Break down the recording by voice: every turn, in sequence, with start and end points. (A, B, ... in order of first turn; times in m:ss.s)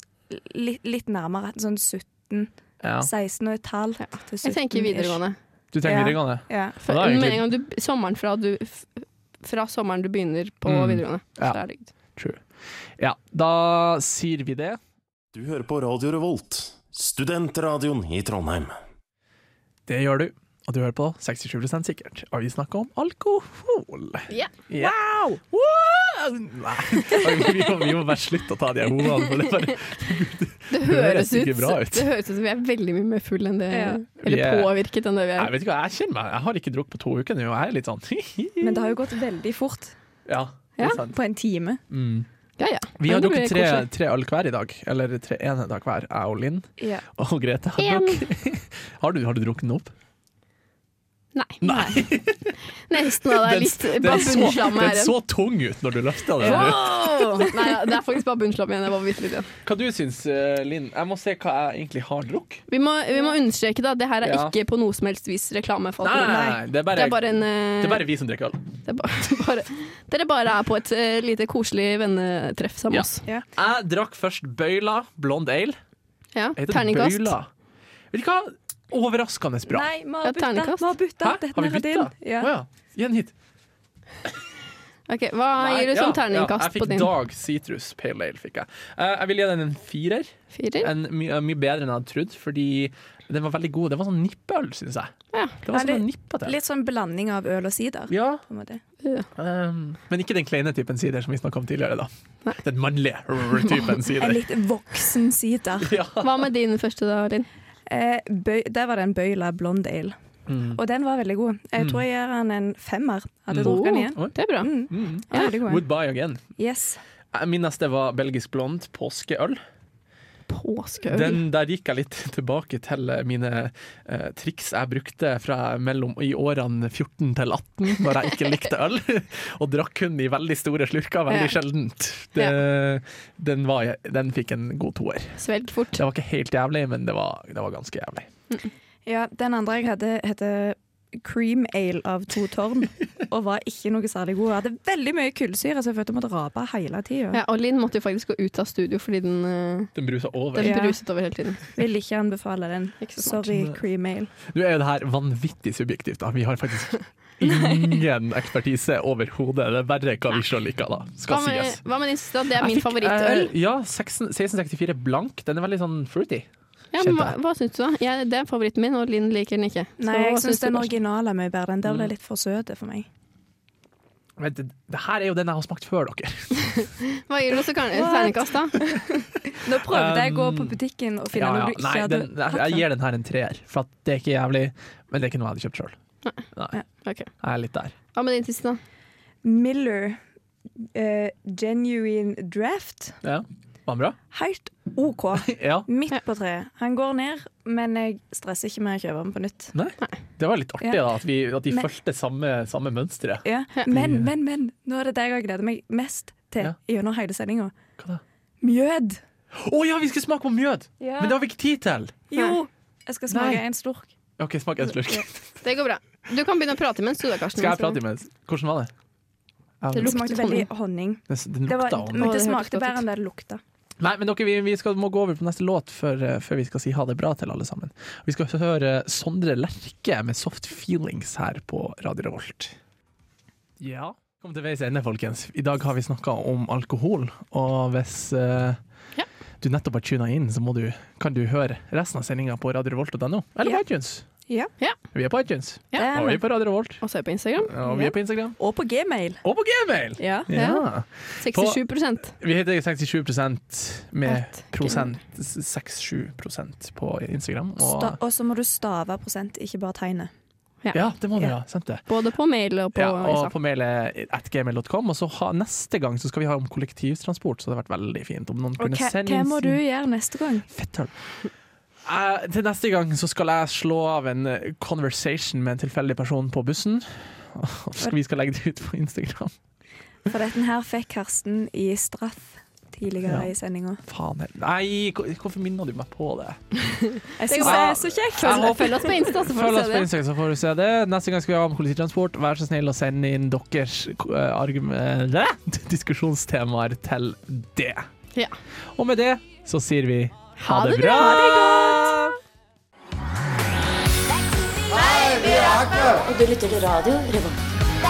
0:00.3-0:05.2 A
0:02.8-0:03.1 B
0:04.1-0:05.4 C
0:05.7-0:07.5 B
0:05.8-0:06.8 A
0:06.8-0:11.9 C
0:10.7-0:11.6 B
0:12.2-0:12.4 B
0:13.0-0:14.8 B
0:15.3-0:18.8 D
0:19.9-0:32.1 B
0:30.7-0:35.5 C
0:33.7-0:34.0 A
0:34.2-0:34.7 B
0:35.4-0:39.0 B
0:38.6-0:40.0 A
0:40.3-0:41.2 B
0:41.0-0:41.8 A
0:41.9-0:42.3 B
0:42.6-0:43.9 C
0:43.0-0:49.9 B
0:46.8-0:47.0 A
0:47.8-0:48.3 C
0:51.4-0:52.0 C
0:51.6-0:52.5 B
0:52.9-0:55.2 C
0:53.1-0:57.6 B
0:56.4-0:59.5 C
0:56.5-0:56.8 A
0:59.6-1:02.6 B
1:02.7-1:08.0 C
1:04.2-1:04.5 B
1:06.0-1:08.6 B
1:06.2-1:06.6 A
1:08.9-1:13.2 C
1:12.9-1:15.8 B
1:16.4-1:17.4 C
1:16.6-1:17.5 B
1:18.1-1:19.9 B
1:19.7-1:22.5 A
1:20.2-1:21.0 C
1:21.2-1:23.3 B
1:25.1-1:27.1 C
1:25.6-1:36.6 B
1:30.5-1:30.9 C
1:35.3-1:35.6 C
1:35.7-1:38.8 A
1:38.1-1:38.4 B
1:39.0-1:39.3 C
1:39.4-1:44.4 B
1:44.2-1:45.9 A
1:45.8-1:46.4 B
1:46.2-1:47.5 C
1:47.9-1:50.2 A
1:50.5-1:50.8 B
1:50.7-1:55.8 A
1:51.8-1:52.0 B
1:53.5-1:54.4 B
1:53.6-1:54.7 C
1:54.9-1:56.4 B
1:56.6-1:57.0 A
1:57.3-1:59.6 B
2:00.5-2:01.4 C
2:01.1-2:18.3 B
2:11.3-2:11.6 C
2:15.4-2:16.0 C
2:19.1-2:27.4 A
2:27.3-2:29.9 C
2:30.0-2:30.9 B
2:30.6-2:31.6 C
2:30.6-2:31.0 A
2:31.8-2:34.3 A
2:33.0-2:33.4 C
2:33.5-2:33.8 B
2:34.5-2:41.8 B
2:41.3-2:43.5 C
2:42.5-2:47.4 B
2:46.9-2:50.9 C
2:50.0-2:53.1 A
2:51.8-2:52.1 B
2:54.4-2:56.9 B
2:56.7-2:58.8 C
2:57.9-3:02.8 A
2:59.7-3:00.8 B
3:01.3-3:06.0 B
3:06.5-3:06.8 B
3:07.0-3:07.3 C
3:07.4-3:08.0 B
3:08.1-3:08.8 C
3:09.4-3:10.2 A
3:10.9-3:13.2 A
3:13.2-3:14.2 B
3:14.3-3:19.8 A
3:15.4-3:15.9 B
3:19.7-3:24.3 B
3:20.8-3:21.1 A
3:23.4-3:27.8 A
3:28.6-3:29.2 A
3:29.5-3:32.2 B
3:31.0-3:31.4 A
3:32.3-3:34.1 A
3:33.3-3:33.6 B
3:34.4-3:35.4 B
3:35.6-3:38.0 C
3:37.6-3:38.9 B
3:39.8-3:40.2 B
3:39.9-3:40.7 C
3:40.0-3:43.6 A
3:41.3-3:42.3 B
3:42.2-3:43.0 C
3:44.0-3:52.8 B
3:53.8-3:58.8 B
3:59.6-4:04.3 B
4:05.1-4:07.0 B
4:06.0-4:06.4 A
4:07.0-4:07.8 C
4:07.6-4:08.6 B
4:07.8-4:09.4 A
4:09.4-4:11.8 B
4:10.2-4:10.5 A
4:10.5-4:10.9 C
4:11.4-4:12.4 C
4:12.3-4:18.2 B
4:14.3-4:15.1 C
4:17.8-4:20.3 A
4:20.9-4:22.0 B
4:22.1-4:23.5 C
4:23.0-4:29.8 B
4:28.8-4:30.7 A
4:30.7-4:31.1 B
4:32.0-4:39.5 B
4:40.3-4:44.0 A
4:43.2-4:43.5 B
4:44.0-4:46.8 B
4:46.9-4:50.1 C
4:47.4-4:49.2 A
4:47.6-4:58.1 B
4:59.0-5:02.2 B
5:00.6-5:02.2 C
5:04.6-5:07.6 E